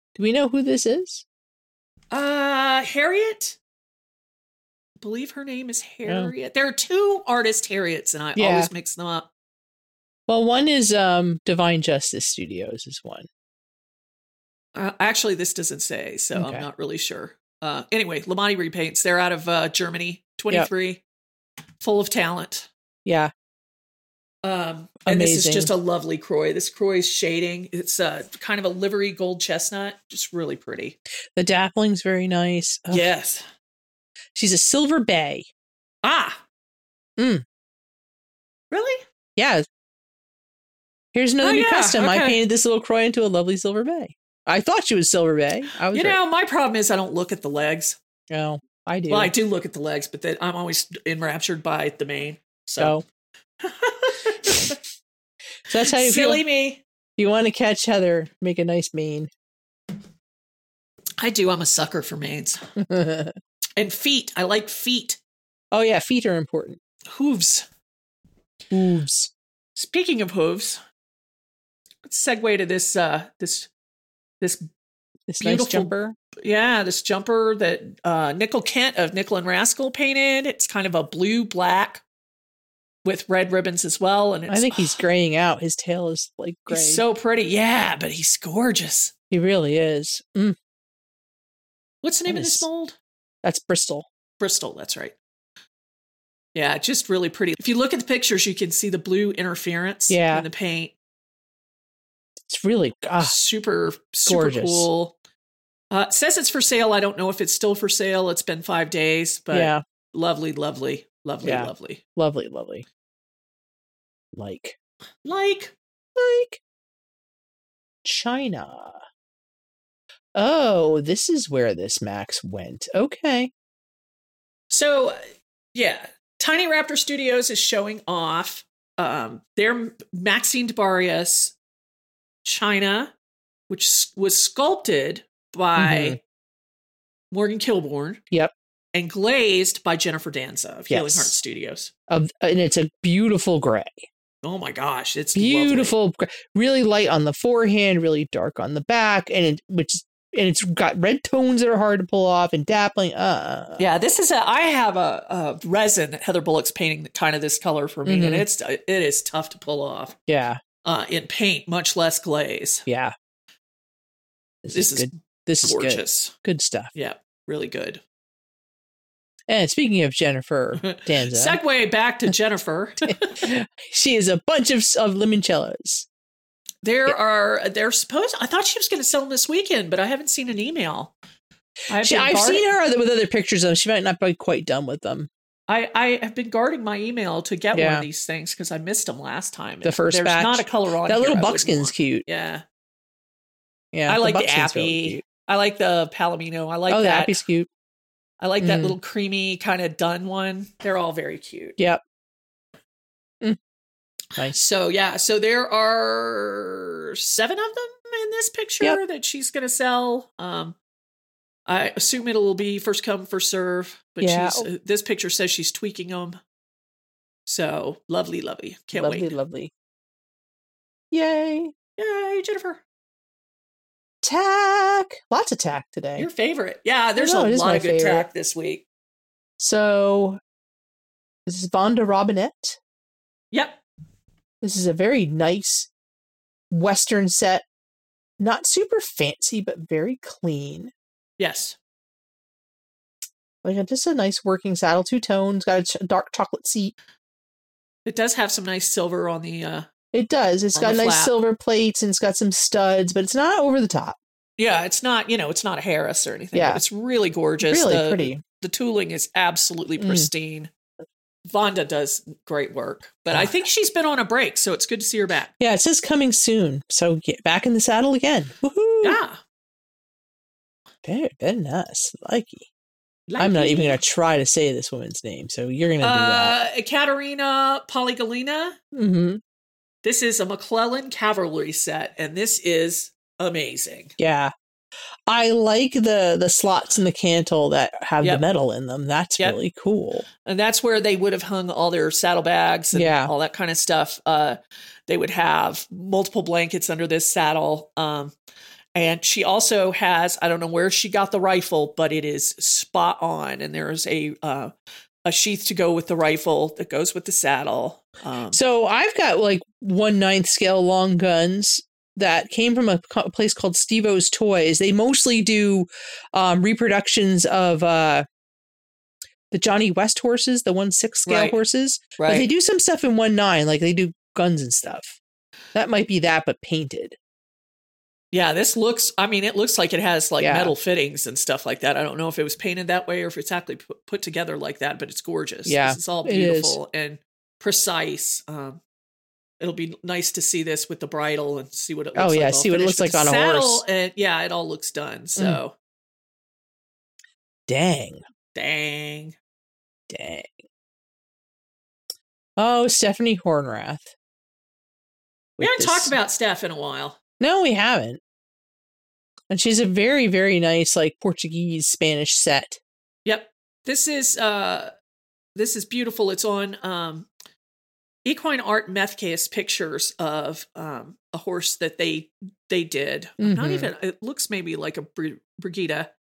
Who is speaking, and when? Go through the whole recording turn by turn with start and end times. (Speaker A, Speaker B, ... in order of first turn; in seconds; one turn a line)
Speaker A: 0.2-1.2
Speaker B: 2.1-3.6
Speaker B: 5.0-9.3
Speaker A: 6.1-6.3
Speaker A: 8.4-8.7
Speaker A: 10.3-13.3
Speaker B: 14.8-21.0
Speaker A: 16.4-16.6
Speaker B: 21.8-22.7
Speaker A: 23.1-23.3
Speaker B: 24.4-31.0
Speaker A: 25.1-25.7
Speaker A: 31.4-33.1
Speaker B: 32.9-33.5
Speaker A: 34.4-35.5
Speaker B: 36.0-36.4
Speaker A: 37.2-37.4
Speaker B: 38.7-39.0
Speaker A: 39.4-39.6
Speaker A: 41.1-46.2
Speaker B: 41.4-42.4
Speaker B: 45.9-48.0
Speaker A: 48.3-49.3
Speaker B: 49.1-53.0
Speaker B: 53.6-54.8
Speaker A: 55.7-56.4
Speaker B: 55.7-56.8
Speaker A: 57.2-59.3
Speaker B: 61.2-62.7
Speaker A: 62.8-63.4
Speaker B: 63.8-65.2
Speaker A: 65.7-66.8
Speaker B: 67.1-67.7
Speaker A: 68.7-69.3
Speaker B: 69.8-70.8
Speaker B: 72.0-73.7
Speaker B: 74.4-74.7
Speaker A: 75.3-76.2
Speaker B: 75.4-82.0
Speaker B: 83.0-85.0
Speaker A: 84.5-87.0
Speaker B: 86.7-89.1
Speaker A: 89.3-90.6
Speaker B: 92.0-93.0
Speaker A: 92.3-92.7
Speaker A: 93.4-94.1
Speaker B: 94.4-95.2
Speaker B: 96.5-100.9
Speaker A: 100.1-100.5
Speaker A: 102.5-103.4
Speaker B: 103.2-105.2
Speaker A: 104.3-104.9
Speaker B: 105.9-112.0
Speaker A: 109.5-109.8
Speaker A: 111.4-112.8
Speaker A: 114.3-114.8
Speaker B: 115.2-115.8
Speaker A: 116.2-116.6
Speaker A: 118.0-119.0
Speaker A: 120.3-123.5
Speaker B: 124.7-125.2
Speaker B: 125.7-131.6
Speaker B: 132.4-133.1
Speaker B: 133.7-136.2
Speaker A: 135.8-136.2
Speaker B: 137.3-138.2
Speaker B: 138.9-141.9
Speaker A: 140.9-141.3
Speaker A: 142.1-144.1
Speaker B: 144.4-145.9
Speaker A: 145.3-153.8
Speaker B: 153.8-160.2
Speaker A: 158.1-158.5
Speaker A: 160.3-160.6
Speaker B: 160.8-162.8
Speaker A: 162.9-163.1
Speaker A: 164.6-166.9
Speaker B: 164.7-166.3
Speaker B: 166.9-168.0
Speaker A: 169.5-171.6
Speaker B: 170.8-173.5
Speaker A: 173.4-176.1
Speaker B: 176.8-181.2
Speaker B: 181.9-182.7
Speaker A: 182.0-185.3
Speaker B: 185.7-192.6
Speaker A: 187.7-188.1
Speaker A: 189.8-192.2
Speaker A: 193.9-195.2
Speaker B: 194.1-197.4
Speaker A: 196.9-197.7
Speaker B: 198.4-201.8
Speaker A: 198.6-199.0
Speaker B: 204.5-210.8
Speaker B: 211.7-216.4
Speaker A: 214.2-214.7
Speaker B: 217.5-219.3
Speaker A: 218.9-219.7
Speaker A: 221.1-221.7
Speaker B: 222.0-222.8
Speaker A: 224.2-226.3
Speaker B: 226.2-228.8
Speaker A: 227.2-228.3
Speaker A: 229.6-230.4
Speaker A: 231.5-232.8
Speaker B: 233.5-233.8
Speaker A: 234.6-235.9
Speaker A: 236.7-237.7
Speaker A: 238.4-240.9
Speaker B: 241.4-241.8
Speaker A: 243.6-246.9
Speaker B: 248.1-249.9
Speaker A: 250.1-254.2
Speaker B: 250.8-251.3
Speaker B: 254.6-260.7
Speaker A: 256.5-256.8
Speaker A: 257.6-258.4
Speaker A: 260.0-260.3
Speaker B: 261.5-265.5
Speaker A: 265.6-269.2
Speaker B: 269.0-269.4
Speaker A: 271.0-272.7
Speaker B: 273.3-274.0
Speaker A: 273.4-276.6
Speaker B: 276.0-278.8
Speaker A: 278.9-279.4
Speaker B: 280.0-284.1
Speaker A: 284.2-284.5
Speaker A: 285.3-290.3
Speaker B: 290.4-298.3
Speaker A: 292.9-293.3
Speaker B: 298.9-304.7
Speaker B: 305.2-308.6
Speaker A: 308.5-318.3
Speaker A: 319.5-325.2
Speaker B: 321.3-321.6
Speaker B: 322.2-322.5
Speaker A: 325.7-327.2
Speaker B: 328.3-338.8
Speaker A: 330.4-330.7
Speaker A: 335.7-336.8
Speaker B: 339.6-345.8
Speaker A: 342.2-343.8
Speaker A: 347.7-348.2
Speaker B: 348.5-349.4
Speaker A: 350.1-350.6
Speaker A: 352.6-354.1
Speaker A: 355.6-356.1
Speaker B: 355.6-357.2
Speaker A: 357.4-358.2
Speaker A: 359.5-362.8
Speaker B: 363.2-364.9
Speaker B: 365.6-367.3
Speaker B: 368.2-376.1
Speaker A: 373.4-373.9